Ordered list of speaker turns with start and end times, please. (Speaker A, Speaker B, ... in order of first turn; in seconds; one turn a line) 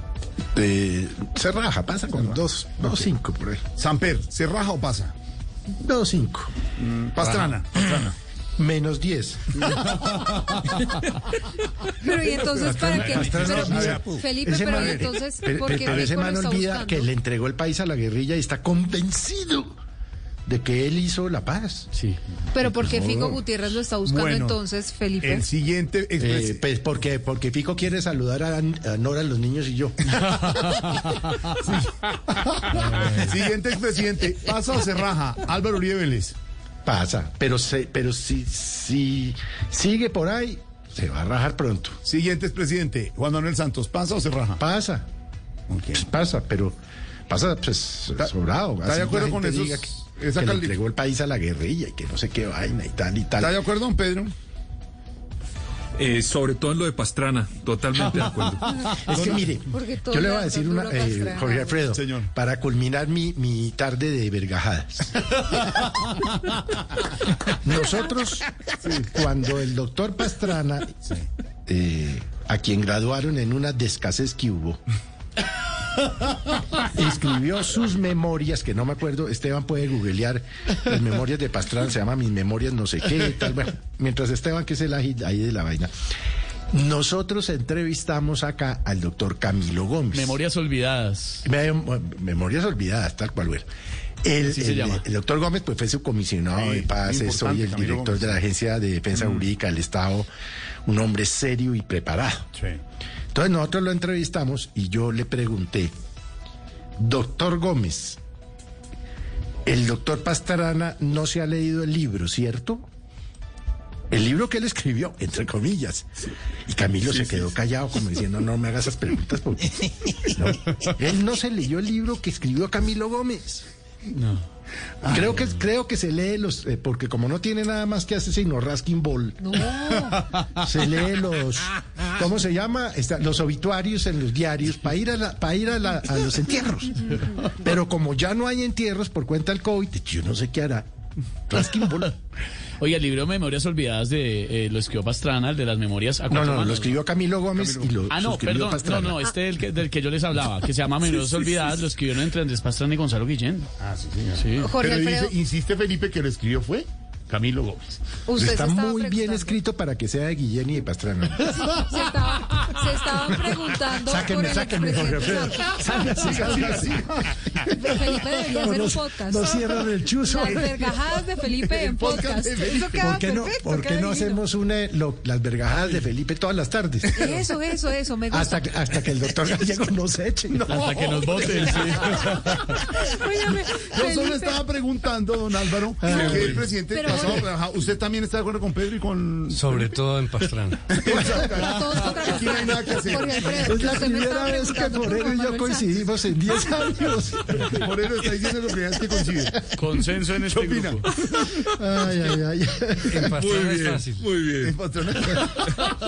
Speaker A: 0.5-3.6
Speaker B: 3.8-5.1
Speaker A: 5.8-6.5
Speaker B: 6.8-8.1
Speaker A: 8.6-9.8
Speaker B: 9.6-10.8
Speaker C: 12.0-17.1
Speaker B: 12.4-14.2
Speaker A: 12.4-19.7
Speaker B: 14.7-15.1
Speaker A: 20.4-21.9
Speaker C: 22.5-25.4
Speaker A: 22.6-23.4
Speaker B: 24.0-24.6
Speaker B: 25.2-26.6
Speaker A: 26.2-30.2
Speaker B: 31.5-36.3
Speaker A: 36.8-42.0
Speaker B: 42.0-44.6
Speaker A: 44.6-45.1
Speaker B: 45.7-46.0
Speaker A: 45.9-46.8
Speaker A: 47.3-53.6
Speaker B: 48.8-50.7
Speaker B: 53.4-54.3
Speaker D: 56.0-58.9
Speaker A: 58.9-65.6
Speaker B: 59.1-59.5
Speaker C: 59.6-61.9
Speaker B: 61.9-62.3
Speaker A: 67.5-68.5
Speaker A: 69.0-70.9
Speaker A: 71.7-74.8
Speaker A: 76.7-85.9
Speaker A: 86.7-90.4
Speaker E: 90.1-91.5
Speaker A: 91.4-93.7
Speaker A: 94.2-100.3
Speaker E: 94.4-95.0
Speaker B: 96.5-98.4
Speaker A: 100.8-102.5
Speaker A: 103.3-105.9
Speaker A: 107.0-108.2
Speaker A: 109.6-112.9
Speaker A: 114.1-116.1
Speaker A: 116.7-123.6
Speaker E: 124.1-124.4
Speaker A: 125.0-129.6
Speaker C: 129.4-130.2
Speaker A: 130.5-140.9
Speaker A: 141.5-142.1
Speaker E: 142.8-147.0
Speaker A: 146.3-149.2
Speaker B: 147.6-147.9
Speaker E: 148.1-153.7
Speaker B: 153.8-158.0
Speaker E: 154.3-154.7
Speaker C: 154.6-155.3
Speaker C: 158.3-159.6
Speaker A: 158.3-162.2
Speaker C: 161.4-166.3
Speaker A: 163.1-167.0
Speaker B: 165.9-167.6
Speaker C: 167.6-169.6
Speaker A: 167.8-170.9
Speaker C: 170.2-174.4
Speaker B: 171.5-173.2
Speaker A: 172.9-177.4
Speaker C: 177.1-178.7
Speaker A: 178.3-180.7
Speaker E: 180.7-182.6
Speaker B: 180.7-181.2
Speaker C: 182.8-184.6
Speaker B: 183.8-189.9
Speaker A: 186.0-186.6
Speaker C: 186.0-187.5
Speaker F: 189.5-190.8
Speaker B: 190.9-193.8
Speaker A: 191.0-191.5
Speaker C: 191.3-196.1
Speaker A: 193.5-197.7
Speaker B: 197.6-201.5
Speaker E: 199.7-201.1
Speaker A: 201.5-203.5
Speaker F: 203.2-204.2
Speaker D: 203.4-204.7
Speaker B: 204.6-205.7